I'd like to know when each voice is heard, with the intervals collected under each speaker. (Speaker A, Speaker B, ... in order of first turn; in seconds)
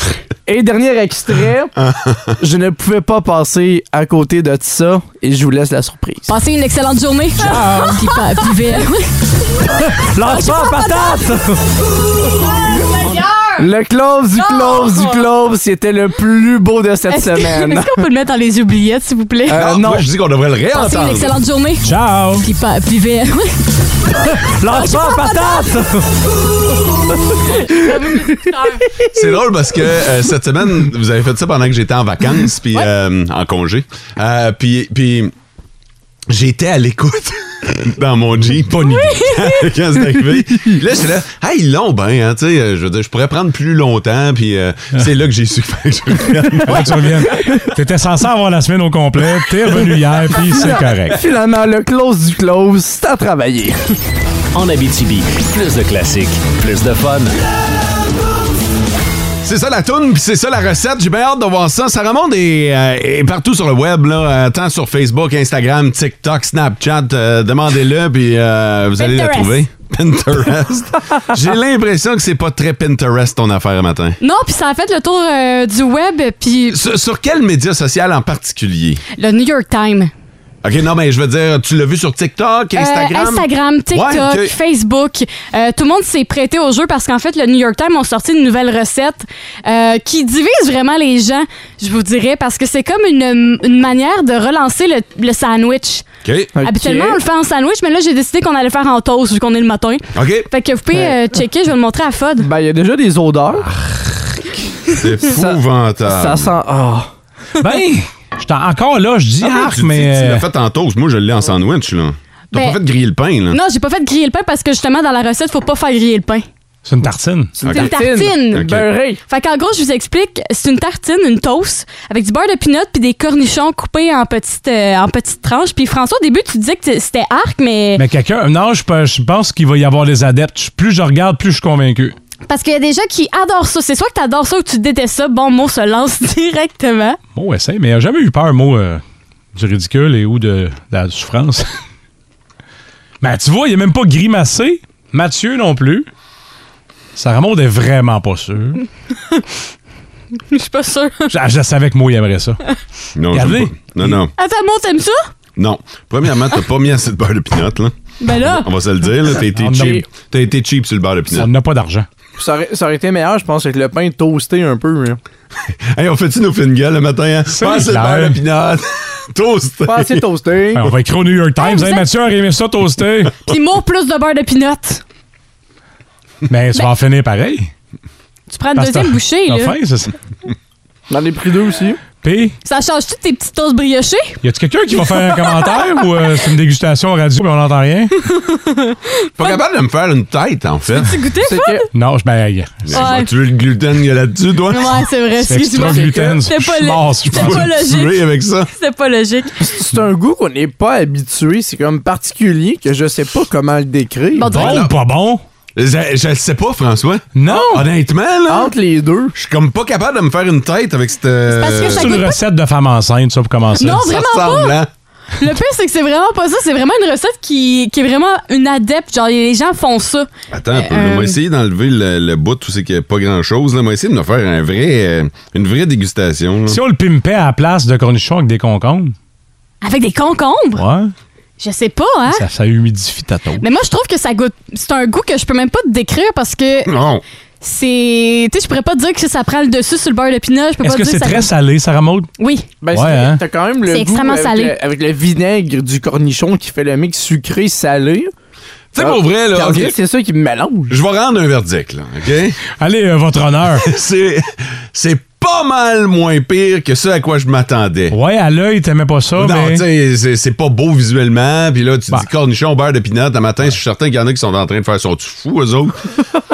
Speaker A: 0.5-1.7, 2.4-6.3, 7.4-8.0, 9.8-11.8, 13.6-17.9, 19.5-20.1, 24.4-26.2, 27.3-27.8, 50.5-54.0, 96.5-97.2, 102.4-103.7, 105.3-107.1, 117.6-119.2, 162.4-165.2, 169.8-170.9, 181.1-182.0, 191.4-191.9, 195.8-196.3, 199.6-204.5, 208.5-209.3, 242.8-248.3, 249.0-250.9
Speaker B: 1.8-2.4, 19.5-21.3, 29.1-35.3, 36.3-47.2, 59.4-74.2, 76.7-79.0, 80.6-84.5, 96.2-96.5, 100.1-100.5, 104.9-106.5, 109.4-113.6, 117.6-117.9, 118.5-118.9, 153.2-154.3, 155.6-161.5, 165.9-170.2, 189.4-191.1, 192.8-195.1, 197.3-198.7, 204.5-204.9, 205.8-208.7, 209.3-212.2, 213.9-214.9, 220.5-226.8, 236.8-237.2, 248.9-250.0, 250.9-252.6, 253.8-258.1, 259.4-266.0
Speaker C: 6.3-9.1, 10.3-11.1, 12.9-13.6, 14.4-15.2, 17.1-19.6, 20.7-23.5, 24.7-25.6, 27.4-28.9, 38.8-39.6, 69.0-69.6, 74.2-76.8, 79.2-80.1, 82.7-96.0, 96.6-102.5, 112.5-112.8, 113.5-116.5, 117.7-128.0, 132.5-137.2, 150.5-151.3, 154.4-155.3, 158.2-158.7, 171.6-172.1, 173.5-175.0, 178.5-179.7, 182.6-184.4, 188.3-189.6, 191.0-191.9, 192.9-193.3, 194.7-199.6, 204.3-204.8, 211.5-212.4, 213.8-214.8, 215.4-221.3, 229.8-230.8, 231.6-232.4, 233.6-236.9, 237.6-241.5, 242.4-242.7, 243.9-244.7
Speaker D: 21.8-22.4, 38.7-39.1, 46.6-51.2, 107.6-110.5, 116.8-117.6, 128.0-132.1, 137.3-139.0, 139.5-141.7, 143.2-146.1, 147.2-148.8, 151.3-152.6, 153.3-154.2, 159.5-160.0, 161.3-162.1, 167.5-168.4, 170.8-173.3, 176.5-177.7, 178.8-180.1, 182.2-182.5, 184.4-188.1, 191.9-193.1, 195.4-197.7, 204.5-205.4, 207.3-207.9, 211.6-214.1, 226.7-229.1, 230.8-231.1, 232.3-233.6, 240.8-242.3, 242.9-243.4, 252.8-253.9, 258.1-259.8
Speaker E: 54.5-57.3